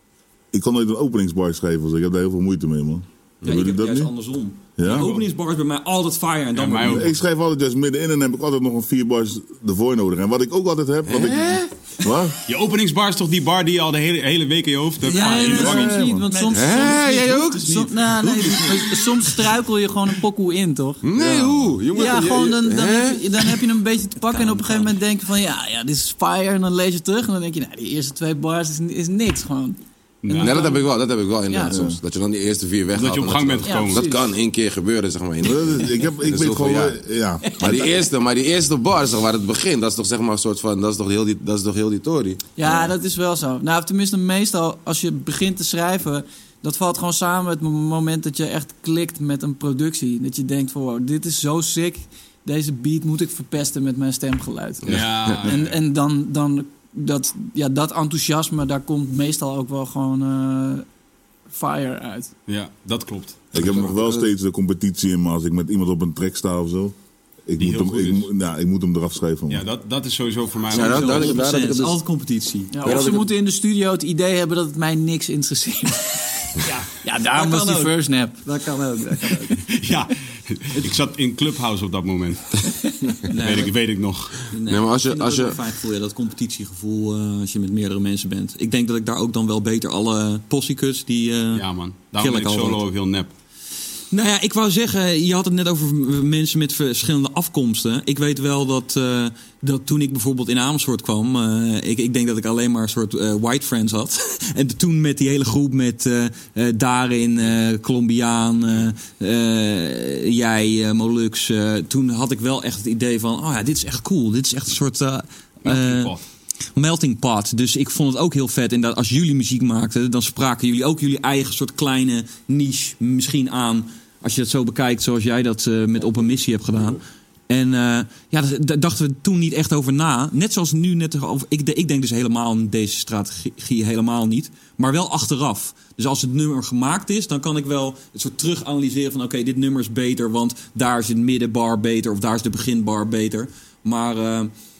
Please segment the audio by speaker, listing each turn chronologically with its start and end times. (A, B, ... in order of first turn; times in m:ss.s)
0:00.5-0:04.1 A
0:03.4-0:03.7 B
0:03.4-0:07.1 C
0:04.8-0:05.1 A
0:04.8-0:05.2 D
0:06.5-0:07.2 D
0:06.8-0:12.4 A
0:11.1-0:11.7 B
0:12.5-0:15.9 D
0:15.0-0:19.5 C
0:15.1-0:21.0 E
0:15.5-0:16.3 A
0:16.5-0:17.9 B
0:21.0-0:23.6 B
0:21.2-0:21.5 A
0:21.9-0:30.8 E
0:24.2-0:24.9 C
0:30.2-0:30.7 D
0:30.4-0:37.0 B
0:31.5-0:31.8 E
0:31.7-0:32.0 A
0:32.9-0:34.0 D
0:33.6-0:34.2 E
0:35.4-0:37.8 A
0:37.4-0:37.8 E
0:37.5-0:42.4 B
0:42.6-1:00.8 E
0:54.8-0:55.5 B
0:54.8-0:55.8 D
1:01.5-1:02.3 E
1:02.5-1:03.4 D
1:03.5-1:09.6 A
1:03.5-1:04.3 B
1:07.6-1:08.3 D
1:09.5-1:11.4 D
1:10.7-1:12.0 B
1:10.7-1:13.1 C
1:12.7-1:18.5 E
1:12.8-1:13.3 B
1:16.6-1:19.7 C
1:19.7-1:22.6 D
1:23.3-1:23.7 C
1:23.3-1:24.5 D
1:24.5-1:31.6 C
1:24.6-1:25.6 B
1:31.5-1:33.3 D
1:32.2-1:32.8 C
1:34.1-1:56.2 C
1:55.6-1:56.2 D
1:56.7-2:24.5 C